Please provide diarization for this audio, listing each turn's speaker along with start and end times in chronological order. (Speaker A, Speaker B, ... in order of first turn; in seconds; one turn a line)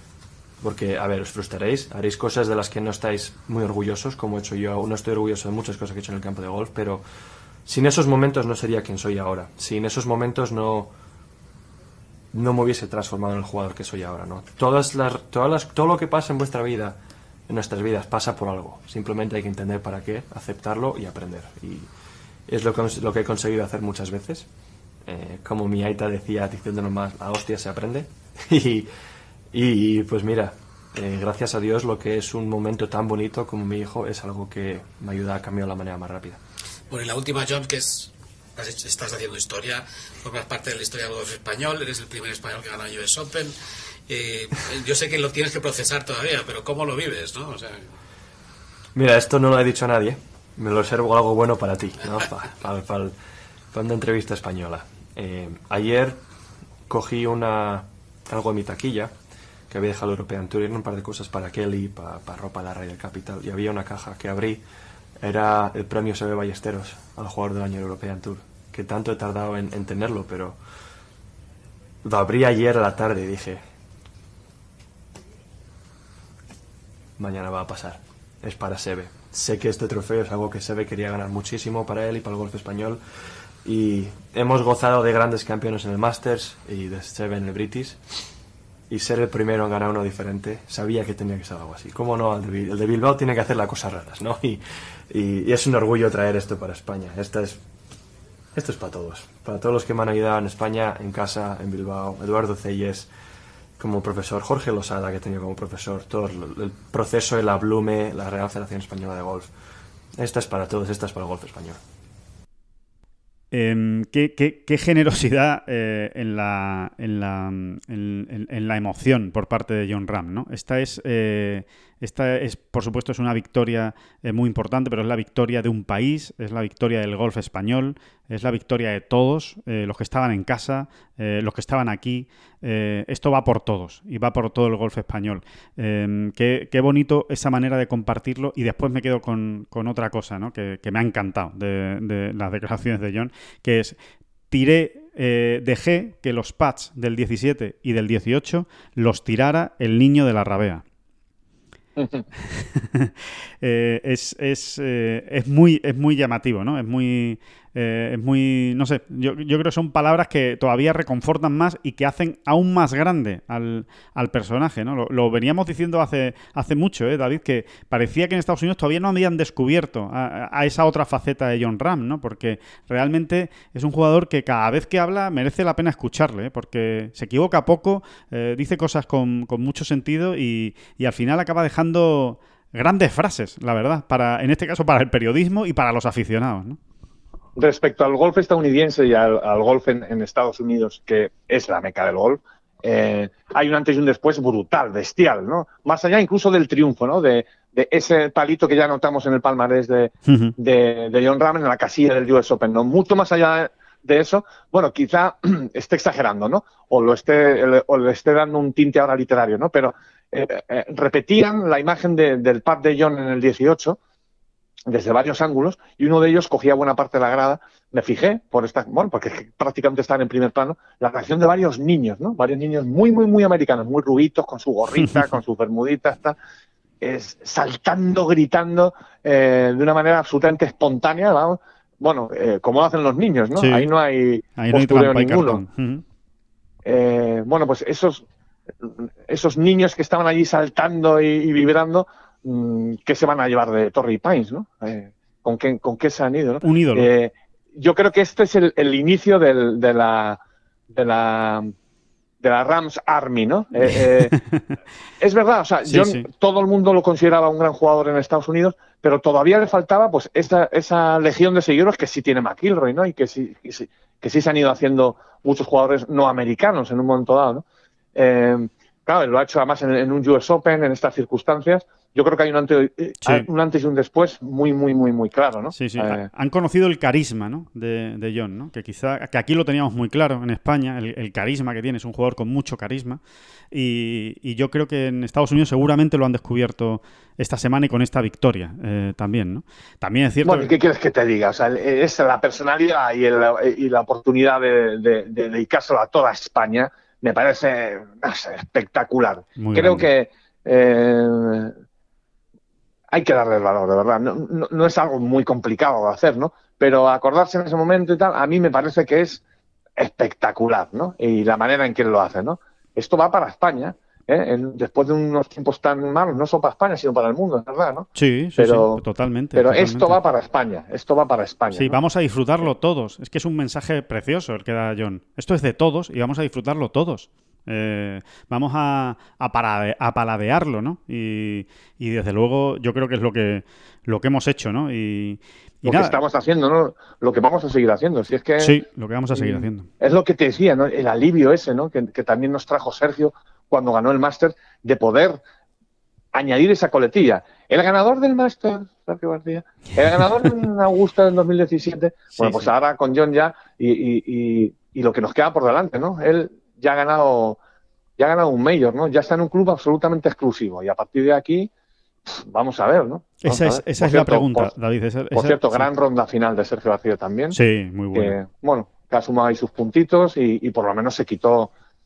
Speaker A: 0.6-7.0
Speaker A: 7.7-10.9
Speaker A: 12.3-21.9
Speaker A: 22.5-24.5
Speaker A: 25.1-28.9
Speaker A: 29.5-36.4
Speaker B: 36.9-43.5
Speaker B: 44.1-47.9
Speaker A: 49.0-53.1
Speaker A: 53.7-56.2
Speaker A: 56.9-59.1
Speaker A: 59.7-64.6
Speaker A: 65.2-70.6
Speaker A: 72.0-73.6
Speaker A: 77.2-83.0
Speaker A: 83.6-88.0
Speaker A: 88.9-97.6
Speaker A: 98.5-103.1
Speaker A: 103.8-109.5
Speaker A: 110.2-111.8
Speaker C: 113.5-144.0
Speaker C: 144.5-150.8
Speaker D: 152.0-152.2
Speaker C: 152.5-186.8
Speaker D: 187.6-214.0
Speaker C: 200.3-200.6
Speaker D: 214.9-226.4
Speaker C: 225.0-225.3
Speaker D: 227.0-235.6
Speaker C: 233.6-233.9
Speaker C: 234.6-236.0
Speaker D: 236.8-238.2
Speaker D: 238.8-251.7
Speaker C: 246.6-247.1
Speaker D: 252.4-254.3
Speaker D: 255.2-267.6
Speaker C: 255.8-256.3
Speaker D: 268.1-276.3
Speaker C: 273.2-273.5
Speaker C: 275.7-283.2
Speaker C: 283.7-290.7
Speaker D: 290.4-301.7
Speaker C: 299.6-300.1
Speaker D: 303.1-309.4
Speaker D: 310.0-319.0
Speaker C: 318.1-320.2
Speaker D: 319.6-322.0
Speaker C: 321.7-336.2
Speaker D: 335.9-338.8
Speaker C: 338.6-339.9
Speaker D: 339.3-345.4
Speaker D: 346.3-357.6
Speaker C: 352.4-352.7
Speaker D: 358.2-361.7
Speaker D: 362.2-364.7
Speaker C: 363.4-365.9
Speaker D: 365.3-367.6
Speaker C: 367.5-368.4
Speaker D: 368.1-371.7